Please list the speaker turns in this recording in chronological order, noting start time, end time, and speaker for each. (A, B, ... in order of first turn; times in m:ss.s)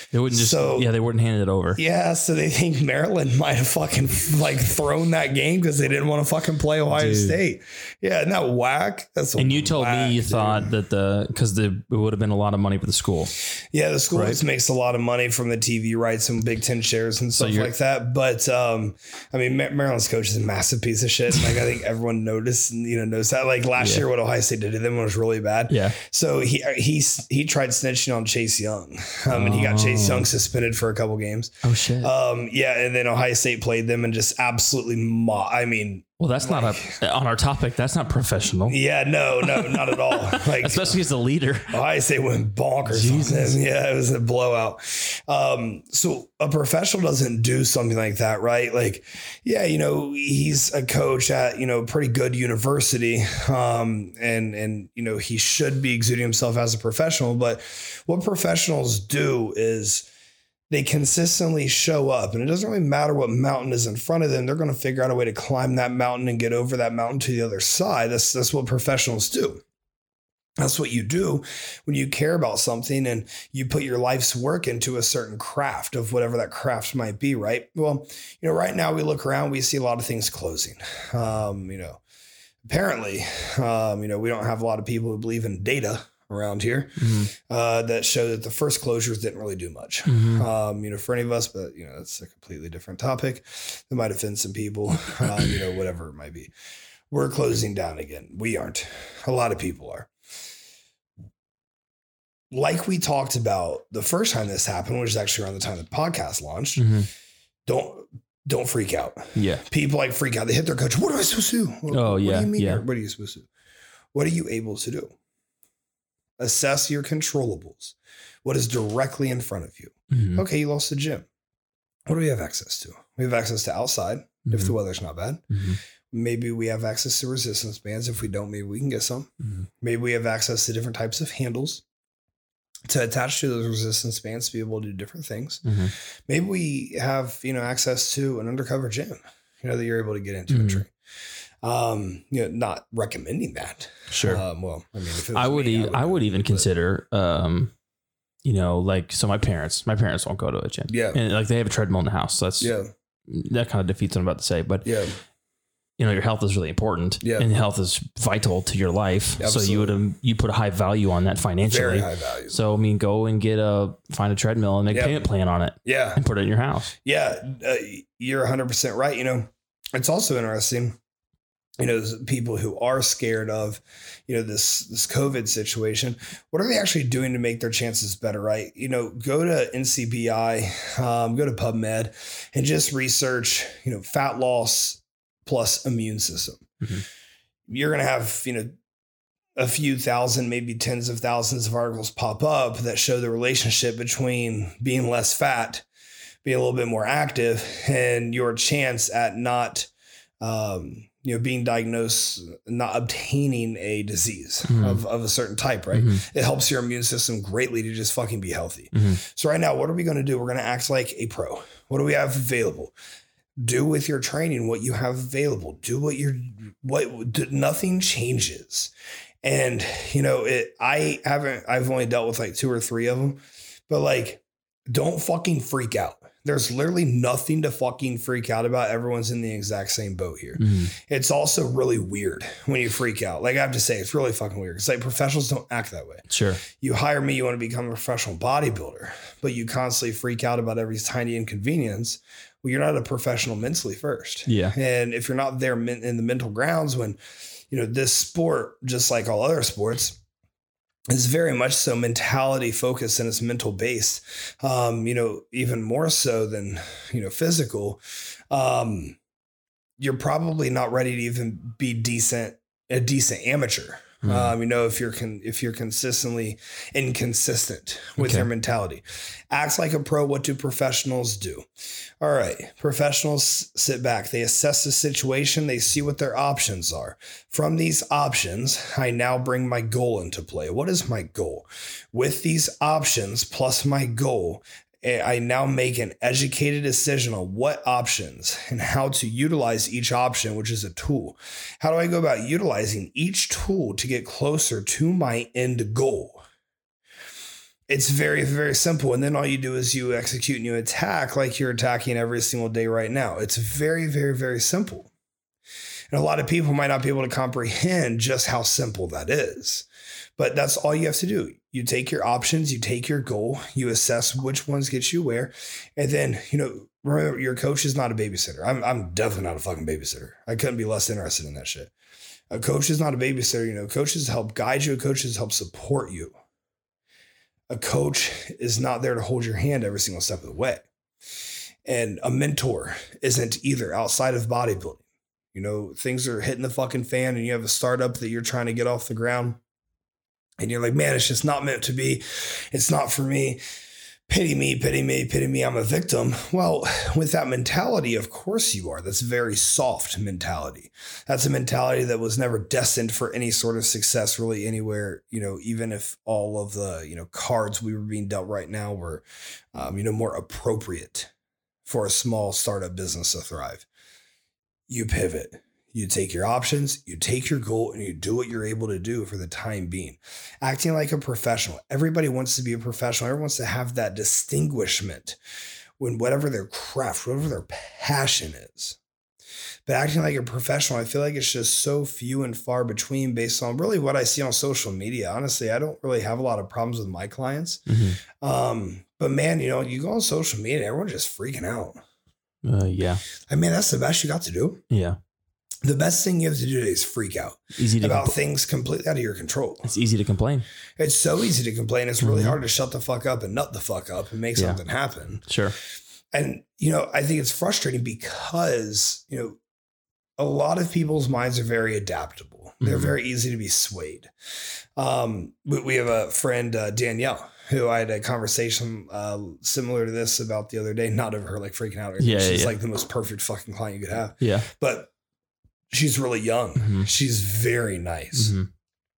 0:00.1-0:01.8 A
0:00.3-0:00.9 B
0:01.8-0:10.7 B
0:06.9-0:07.4 A
0:09.4-0:13.3 A
0:13.6-0:37.0 B
0:14.1-0:14.4 A
0:17.4-0:17.7 A
0:23.8-0:24.1 A
0:25.7-0:26.0 A
0:29.3-0:30.3 A
0:31.6-0:32.1 A
0:36.2-0:38.8 A
0:38.7-0:41.0 B
0:39.5-0:41.8 A
0:41.7-1:00.1 B
0:42.9-0:43.6 A
1:00.7-1:09.6 B
1:10.6-1:22.0 B
1:22.6-1:36.5 B
1:27.0-1:27.3 A
1:30.1-1:30.5 A
1:37.1-1:40.1 B
1:42.5-1:46.9 B
1:46.8-1:47.1 A
1:47.7-1:53.5 B
1:49.4-1:49.6 A
1:51.9-1:52.8 A
1:54.1-1:55.1 B
1:56.4-2:01.3 B
2:00.1-2:00.4 A
2:02.1-2:05.6 B
2:04.5-2:04.8 A
2:05.5-2:05.8 A
2:06.1-2:11.8 B
2:12.9-2:15.7 B
2:15.6-2:15.9 A
2:16.3-2:20.9 B
2:20.5-2:20.8 A
2:21.6-2:26.7 B
2:24.1-2:24.4 A
2:25.4-2:27.7 A
2:28.4-2:32.7 A
2:30.9-2:31.2 B
2:32.6-2:32.9 B
2:33.3-2:34.9 A
2:34.8-2:35.2 B
2:36.0-2:46.9 A
2:37.2-2:37.5 B
2:39.4-2:40.0 B
2:41.6-2:42.6 B
2:44.9-2:45.3 B
2:45.8-2:46.2 B
2:47.0-2:51.0 B
2:51.8-3:06.7 B
3:07.7-3:08.8 B
3:09.6-3:15.9 B
3:16.4-3:19.9 B
3:20.4-3:32.9 B
3:24.7-3:25.0 A
3:25.9-3:26.2 A
3:28.9-3:29.2 A
3:33.6-3:38.9 B
3:39.4-4:07.2 B
3:50.6-3:50.9 A
3:56.3-3:56.6 A
4:04.5-4:04.8 A
4:07.7-4:10.2 B
4:11.1-4:19.2 B
4:20.0-4:31.7 B
4:24.2-4:24.5 A
4:28.2-4:28.5 A
4:32.2-4:56.4 B
4:57.9-5:05.1 B
5:06.1-5:21.9 B
5:22.5-5:26.3 B
5:27.7-5:30.9 B
5:31.9-5:35.0 B
5:35.5-5:39.6 B
5:40.6-5:43.6 B
5:44.3-6:01.3 B
6:01.9-6:03.9 B
6:04.9-6:15.4 B
6:16.0-6:19.0 B
6:19.9-6:27.9 B
6:27.9-6:28.2 A
6:28.4-6:32.0 B
6:32.6-6:33.2 A
6:33.5-6:34.8 B
6:34.9-6:35.2 A
6:35.8-6:39.9 B
6:37.8-6:38.4 A
6:39.8-6:40.7 A
6:41.0-6:45.5 B
6:42.2-6:42.6 A
6:45.5-6:45.8 A
6:46.3-6:49.6 B
6:50.4-6:54.3 B
6:52.8-6:53.2 A
6:55.0-7:05.1 B
7:02.2-7:02.8 A
7:04.4-7:04.7 A
7:05.9-7:08.6 B
7:06.8-7:07.1 A
7:08.3-7:08.7 A